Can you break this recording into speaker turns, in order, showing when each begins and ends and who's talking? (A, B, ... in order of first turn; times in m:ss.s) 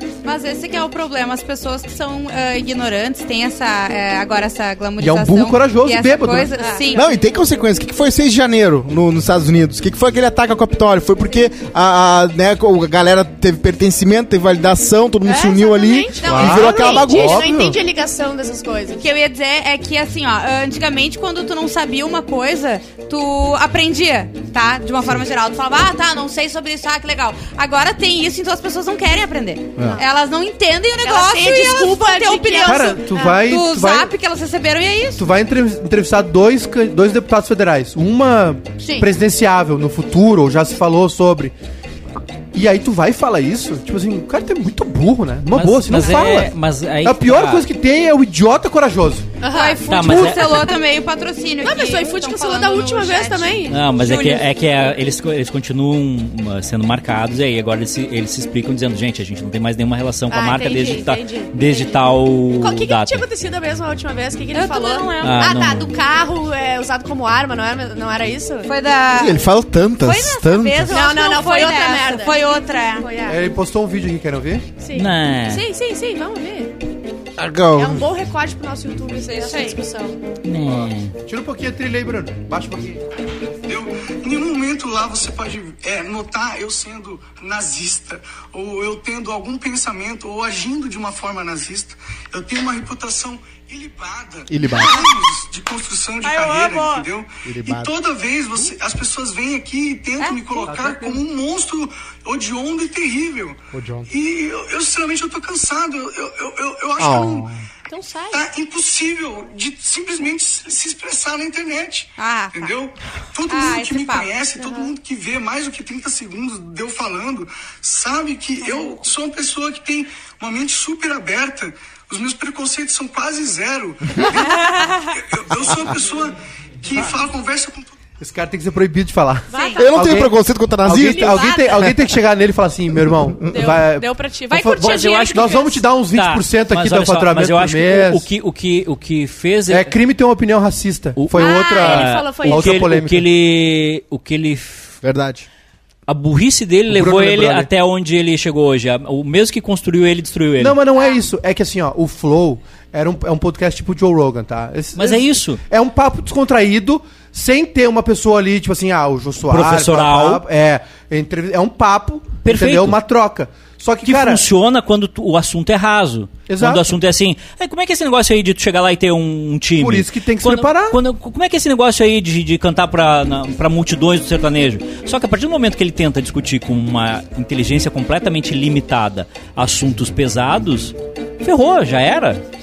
0:00.2-0:07.1 A
0:05.0-0:06.7 B
0:06.6-0:07.2 C
0:06.9-0:17.5 D
0:15.2-0:19.0 C
0:16.2-0:17.0 A
0:16.3-0:17.8 B
0:19.0-0:35.2 A
0:31.0-0:33.4 C
0:32.6-0:34.1 B
0:35.2-0:41.5 B
0:38.8-0:39.1 A
0:42.5-0:46.5 B
0:45.5-0:47.6 E
0:47.0-0:49.3 B
0:49.4-0:50.3 C
0:49.5-0:54.5 A
0:49.9-0:50.7 E
0:50.0-0:50.3 B
0:51.6-0:53.8 C
0:53.7-1:03.2 E
1:00.3-1:02.0 C
1:02.5-1:08.7 C
1:04.5-1:05.4 A
1:05.2-1:05.9 E
1:08.6-1:09.4 A
1:09.1-1:11.0 D
1:10.0-1:13.1 A
1:10.9-1:12.4 C
1:13.0-1:13.4 C
1:13.2-1:14.7 B
1:14.8-1:16.7 C
1:14.9-1:15.6 E
1:17.4-1:18.0 D
1:17.7-1:20.2 C
1:19.3-1:19.8 A
1:20.4-1:21.1 E
1:21.2-1:23.0 B
1:23.7-1:47.5 F
1:34.5-1:35.1 D
1:36.2-1:37.0 C
1:37.4-1:37.9 D
1:40.6-1:41.2 B
1:43.7-1:44.1 D
1:47.0-1:47.6 D
1:47.9-1:48.4 C
1:48.3-2:07.9 F
1:52.2-1:52.7 A
1:53.5-1:54.3 A
1:54.6-1:54.9 C
2:08.2-2:18.2 B
2:09.5-2:10.2 C
2:09.5-2:09.8 A
2:09.8-2:11.5 D
2:10.9-2:11.9 C
2:13.5-2:15.8 C
2:14.7-2:19.9 E
2:19.7-2:23.3 B
2:21.2-2:25.0 E
2:21.3-2:22.9 C
2:25.0-2:25.5 D
2:26.1-2:30.8 E
2:26.9-2:27.7 B
2:30.6-2:44.4 B
2:35.0-2:35.6 E
2:39.5-2:40.4 E
2:42.4-2:43.0 E
2:44.0-3:02.4 E
2:46.5-2:46.9 B
2:49.8-2:51.0 B